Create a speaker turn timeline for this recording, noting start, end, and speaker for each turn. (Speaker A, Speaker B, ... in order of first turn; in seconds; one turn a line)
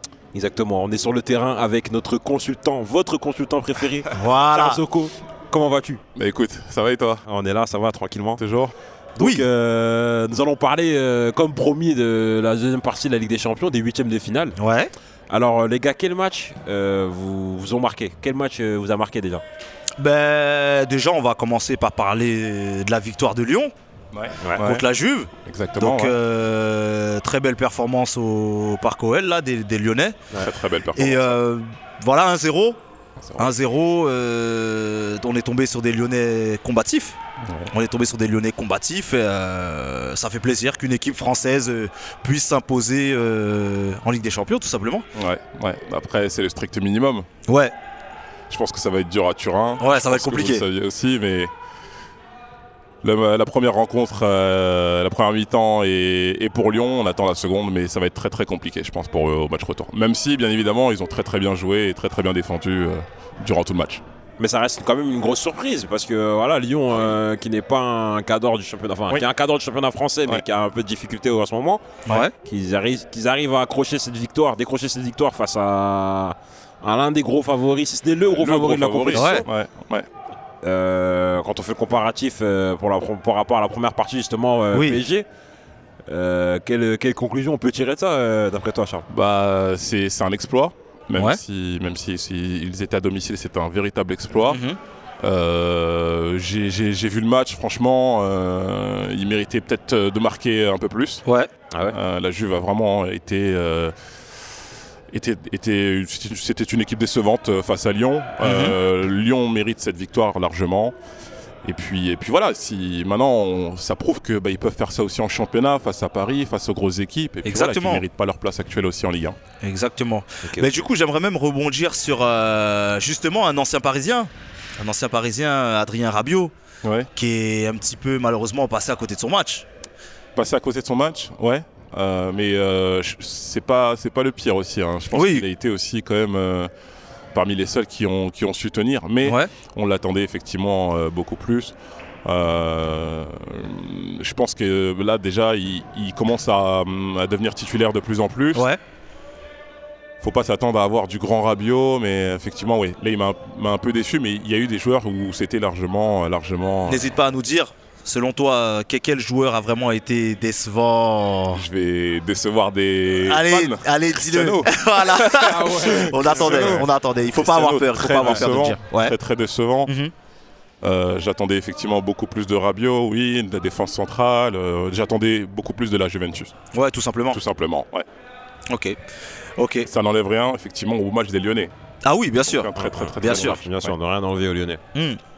Speaker A: 0.3-6.0
Speaker B: 4.1-4.8
Speaker C: 6.2-7.2
Speaker A: 7.3-8.4
Speaker C: 8.4-8.7
Speaker A: 9.2-14.6
Speaker B: 9.2-9.4
Speaker B: 14.6-14.9
Speaker A: 15.3-19.4
Speaker B: 20.0-23.7
Speaker C: 24.1-24.9
Speaker A: 24.4-24.6
Speaker B: 24.6-30.2
Speaker C: 25.5-26.2
Speaker C: 30.4-31.4
Speaker B: 30.9-32.8
Speaker C: 33.2-33.5
Speaker B: 33.4-37.2
Speaker C: 37.4-37.7
Speaker B: 37.7-45.1
Speaker C: 45.1-47.3
Speaker B: 47.5-47.7
Speaker C: 48.5-51.5
Speaker B: 49.8-50.7
Speaker C: 53.0-64.0
Speaker A: 64.4-79.5
Speaker B: 72.0-72.3
Speaker C: 78.3-80.1
Speaker B: 79.1-79.5
Speaker A: 80.6-85.3
Speaker B: 84.7-85.0
Speaker A: 86.1-89.0
Speaker C: 89.1-94.6
Speaker B: 91.2-91.4
Speaker B: 94.5-94.8
Speaker C: 95.2-101.2
Speaker A: 101.7-102.0
Speaker C: 101.9-103.9
Speaker C: 105.1-111.0
Speaker B: 108.4-108.8
Speaker C: 111.6-119.4
Speaker B: 117.4-118.0
Speaker B: 119.6-126.5
Speaker A: 120.4-120.8
Speaker C: 126.8-127.1
Speaker B: 127.2-129.7
Speaker C: 130.4-136.7
Speaker B: 135.1-135.5
Speaker C: 137.3-148.7
Speaker B: 139.2-139.5
Speaker C: 150.2-157.1
Speaker B: 156.9-161.7
Speaker C: 161.5-169.9
Speaker B: 163.3-169.2
Speaker A: 165.5-166.8
Speaker B: 169.9-170.1
Speaker C: 170.8-176.5
Speaker B: 176.7-177.4
Speaker C: 177.3-178.1
Speaker B: 178.7-179.0
Speaker B: 179.6-179.9
Speaker C: 179.8-181.7
Speaker B: 182.0-183.6
Speaker C: 182.4-183.9
Speaker A: 182.8-184.8
Speaker B: 184.9-185.2